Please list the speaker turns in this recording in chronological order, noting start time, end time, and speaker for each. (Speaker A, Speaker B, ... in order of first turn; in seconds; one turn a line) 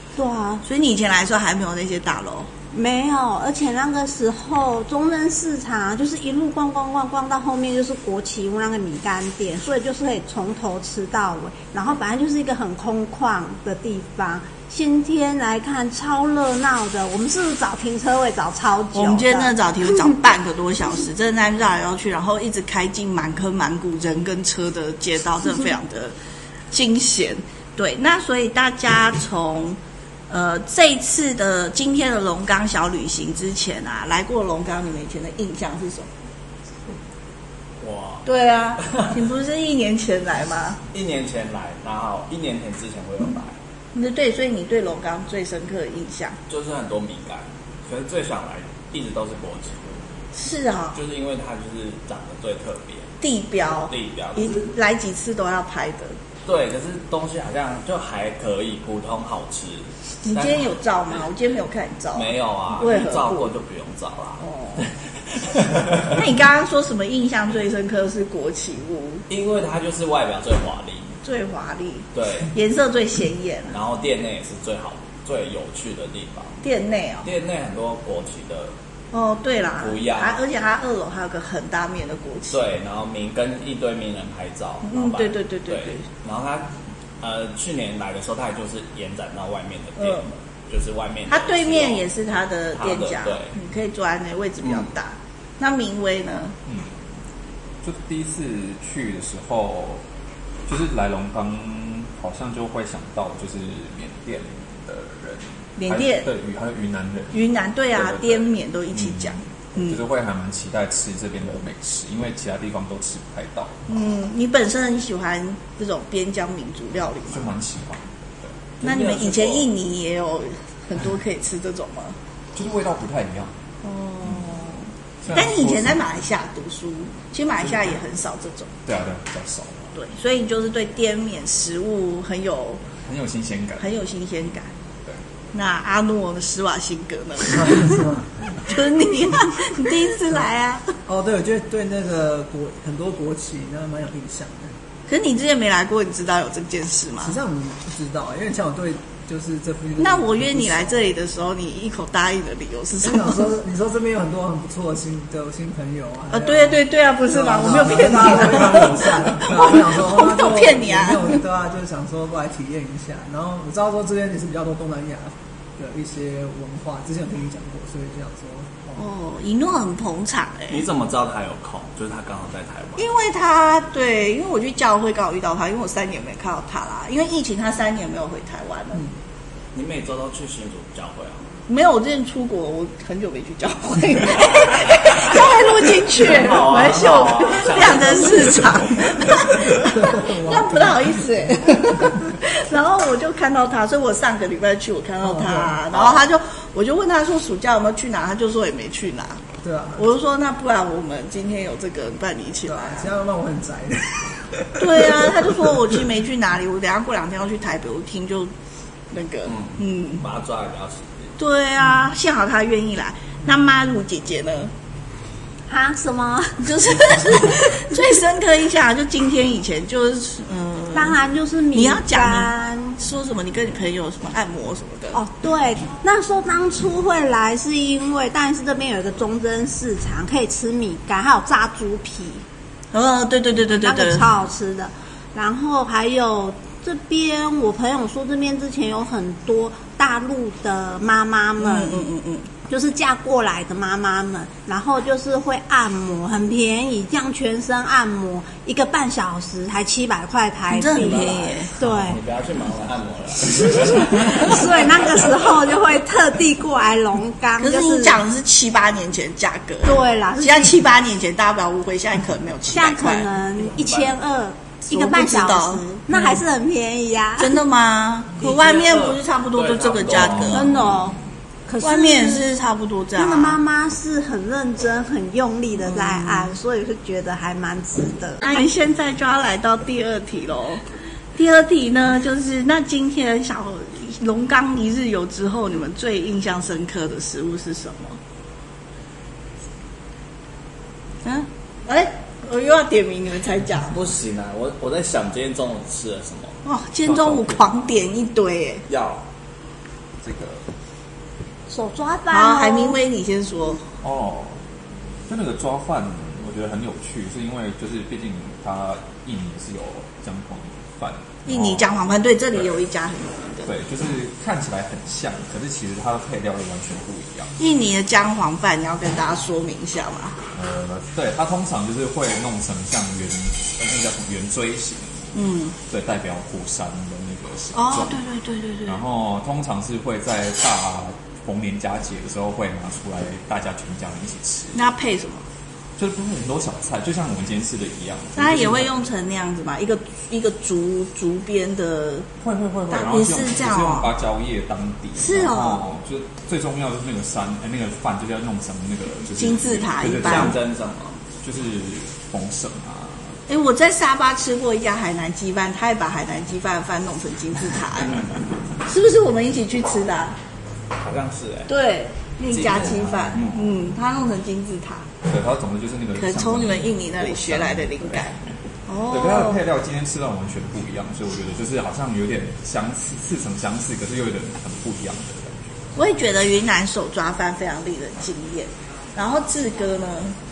Speaker A: 0.2-0.6
Speaker B: 0.6-2.5
Speaker A: 2.7-19.5
Speaker B: 18.9-26.1
Speaker B: 26.7-36.1
Speaker C: 37.8-38.3
Speaker B: 38.2-40.8
Speaker C: 38.8-39.1
Speaker C: 40.9-43.6
Speaker B: 44.0-46.4
Speaker C: 46.5-50.0
Speaker B: 50.4-51.0
Speaker C: 51.0-53.1
Speaker B: 53.2-56.2
Speaker C: 53.9-54.6
Speaker C: 56.5-60.7
Speaker B: 60.2-63.5
Speaker C: 62.1-66.2
Speaker B: 64.4-64.9
Speaker B: 66.1-69.2
Speaker C: 69.3-71.2
Speaker B: 71.2-73.8
Speaker C: 72.2-72.5
Speaker C: 73.7-76.6
Speaker B: 76.6-77.3
Speaker C: 77.2-78.7
Speaker B: 79.1-82.6
Speaker C: 79.8-80.4
Speaker C: 82.5-92.1
Speaker B: 84.8-86.1
Speaker B: 90.0-90.2
Speaker B: 91.3-96.5
Speaker C: 92.8-93.5
Speaker D: 96.7-96.9
Speaker D: 97.8-100.0
Speaker D: 100.7-113.8
Speaker B: 105.8-106.3
Speaker B: 107.3-110.0
Speaker B: 113.9-117.5
Speaker D: 117.3-118.6
Speaker B: 118.8-122.2
Speaker C: 118.8-119.7
Speaker D: 122.5-123.5
Speaker B: 123.8-128.7
Speaker D: 125.2-126.0
Speaker D: 128.9-129.9
Speaker B: 129.9-132.8
Speaker D: 133.0-133.9
Speaker B: 133.8-134.7
Speaker B: 135.5-138.1
Speaker E: 137.5-138.3
Speaker B: 138.6-140.9
Speaker E: 141.1-144.7
Speaker B: 145.1-147.4
Speaker E: 147.2-150.9
Speaker B: 150.0-153.5
Speaker E: 153.0-169.0
Speaker B: 156.3-161.4
Speaker B: 169.0-170.8
Speaker C: 170.7-173.1
Speaker B: 173.0-179.1
Speaker C: 179.7-181.4
Speaker B: 181.7-199.4
Speaker C: 184.7-185.5
Speaker C: 186.0-188.9
Speaker E: 189.5-192.2
Speaker E: 195.2-195.8
Speaker C: 195.9-196.2
Speaker E: 199.6-200.0
Speaker B: 200.0-203.1
Speaker E: 202.7-206.0
Speaker B: 204.8-208.5
Speaker B: 209.1-210.2
Speaker C: 209.5-211.3
Speaker B: 211.4-214.7
Speaker A: 215.7-216.7
Speaker B: 216.6-221.2
Speaker A: 220.9-223.0
Speaker B: 221.7-225.2
Speaker A: 225.1-232.4
Speaker B: 232.9-234.3
Speaker A: 233.8-242.1
Speaker B: 241.6-242.5
Speaker A: 242.7-252.2
Speaker B: 250.7-251.7
Speaker C: 251.0-255.3
Speaker A: 253.9-258.2
Speaker B: 257.6-263.3
Speaker A: 259.9-260.8
Speaker A: 262.7-267.6
Speaker C: 263.6-264.1
Speaker B: 264.9-266.4
Speaker B: 267.4-270.7
Speaker C: 268.4-270.9
Speaker A: 270.5-272.4
Speaker B: 271.8-273.6
Speaker A: 273.1-278.6
Speaker B: 275.8-276.6
Speaker B: 278.4-280.8
Speaker B: 281.4-288.2
Speaker B: 291.2-293.9
Speaker C: 293.9-296.6
Speaker B: 296.6-298.9
Speaker C: 298.9-299.2
Speaker D: 300.2-300.7
Speaker A: 301.7-303.0
Speaker B: 302.3-303.8
Speaker D: 304.0-304.6
Speaker D: 305.3-311.9
Speaker B: 311.5-313.7
Speaker D: 313.6-317.5
Speaker B: 317.6-320.4
Speaker D: 320.5-328.2
Speaker B: 325.3-325.7
Speaker B: 327.7-329.0
Speaker D: 328.9-334.8
Speaker B: 334.7-335.4
Speaker D: 336.0-338.9
Speaker B: 338.4-342.3
Speaker D: 342.4-350.6
Speaker B: 342.9-344.1
Speaker B: 345.2-345.8
Speaker B: 349.4-350.6
Speaker C: 350.1-351.2
Speaker D: 351.4-353.4
Speaker B: 353.5-358.3
Speaker C: 358.0-358.4
Speaker B: 358.9-360.4
Speaker C: 361.0-361.7
Speaker B: 361.7-365.1
Speaker C: 362.5-363.6
Speaker D: 362.6-363.4
Speaker D: 365.2-368.3
Speaker B: 366.2-369.6
Speaker D: 369.1-375.8
Speaker B: 376.0-380.4